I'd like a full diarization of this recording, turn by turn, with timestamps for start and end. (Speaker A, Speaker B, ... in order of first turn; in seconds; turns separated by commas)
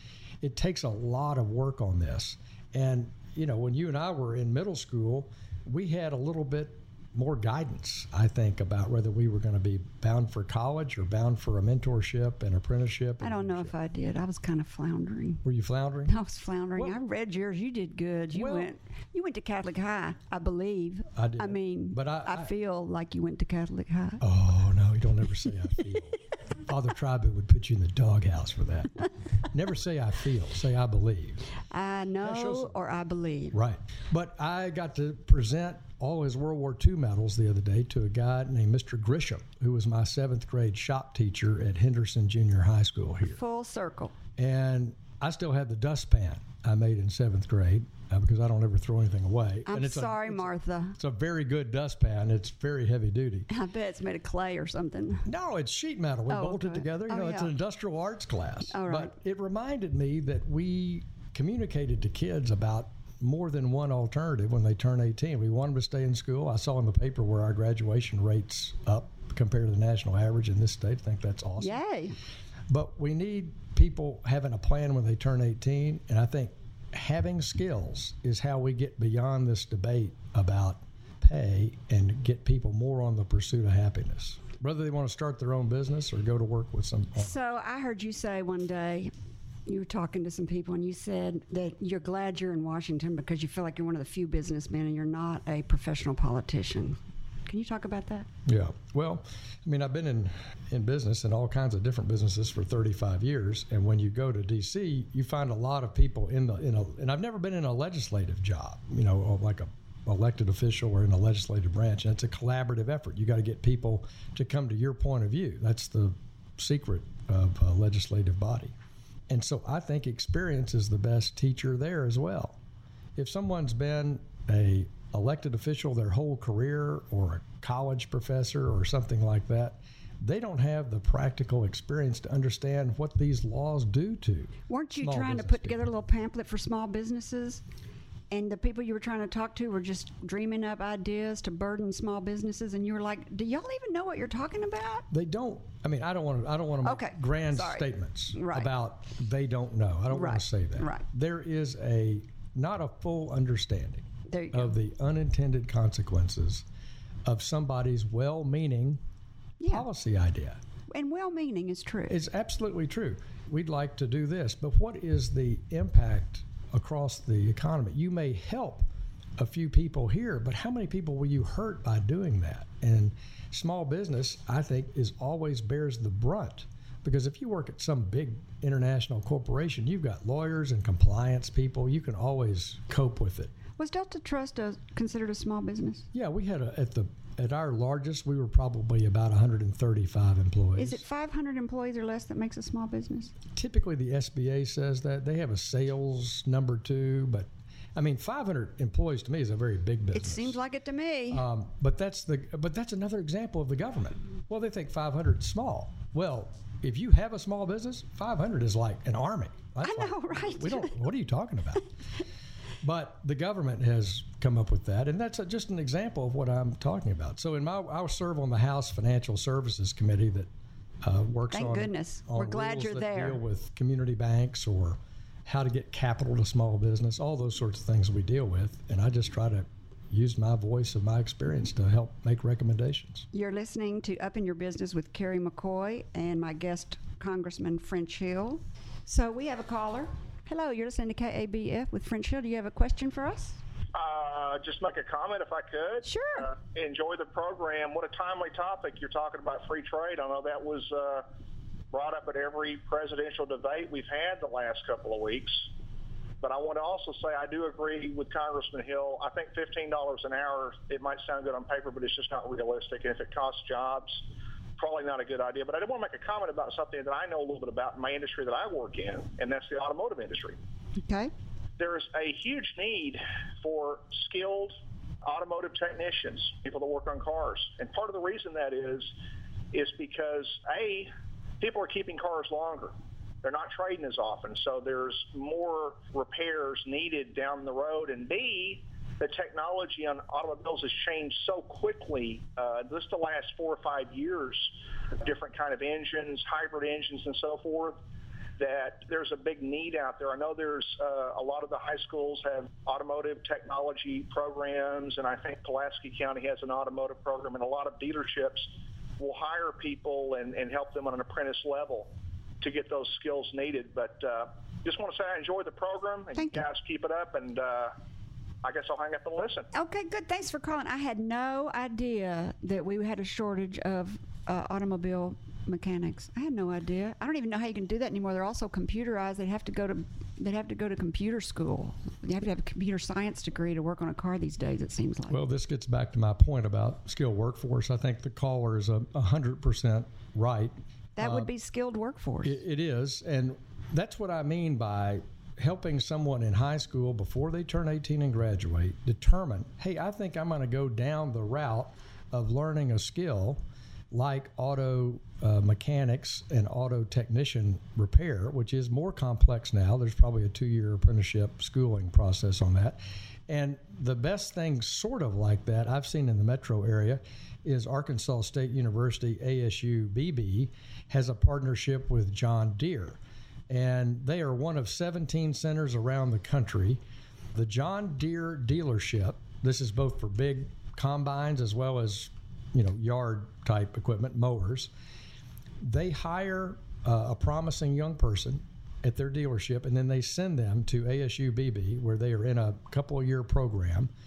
Speaker A: 0.4-13.7, Speaker B: 13.2-15.4, Speaker A: 15.4-16.1, Speaker B: 16.1-24.2, Speaker A: 18.3-18.7, Speaker A: 21.1-22.5, Speaker A: 24.2-31.4, Speaker B: 31.7-33.6, Speaker A: 32.2-32.8, Speaker A: 33.5-43.4, Speaker B: 43.3-44.1, Speaker A: 44.4-53.5, Speaker B: 49.6-51.0, Speaker B: 53.5-55.3, Speaker A: 55.2-71.8, Speaker B: 56.3-57.5, Speaker B: 58.7-59.1, Speaker B: 71.6-72.2, Speaker A: 72.7-87.3, Speaker B: 87.2-89.1, Speaker B: 89.7-98.3, Speaker A: 98.5-118.7, Speaker A: 119.3-122.6, Speaker A: 123.2-135.8, Speaker B: 134.7-137.6, Speaker B: 138.3-145.0, Speaker A: 145.1-156.6, Speaker B: 146.8-148.7, Speaker B: 150.1-151.0, Speaker B: 154.3-154.7, Speaker A: 157.2-159.0, Speaker B: 159.6-159.9, Speaker A: 159.7-160.6, Speaker B: 160.9-162.2, Speaker A: 162.1-183.5, Speaker B: 183.8-186.1, Speaker A: 186.1-191.0, Speaker B: 190.8-193.3, Speaker A: 193.5-200.6, Speaker B: 200.1-201.4, Speaker A: 201.3-211.8, Speaker B: 209.8-211.0, Speaker A: 212.8-220.5, Speaker A: 221.0-233.2, Speaker B: 221.5-223.4, Speaker B: 233.3-243.6, Speaker C: 243.9-251.2, Speaker B: 246.0-246.5, Speaker C: 251.9-255.7, Speaker C: 256.4-264.2, Speaker C: 264.8-270.6, Speaker B: 271.0-271.3, Speaker C: 271.8-279.1, Speaker C: 279.7-298.0, Speaker C: 298.6-317.9, Speaker B: 316.3-316.7, Speaker C: 318.6-319.7, Speaker B: 319.7-335.4, Speaker A: 335.3-341.5, Speaker B: 341.2-342.6, Speaker A: 342.4-377.0, Speaker A: 377.5-384.9, Speaker A: 385.8-394.1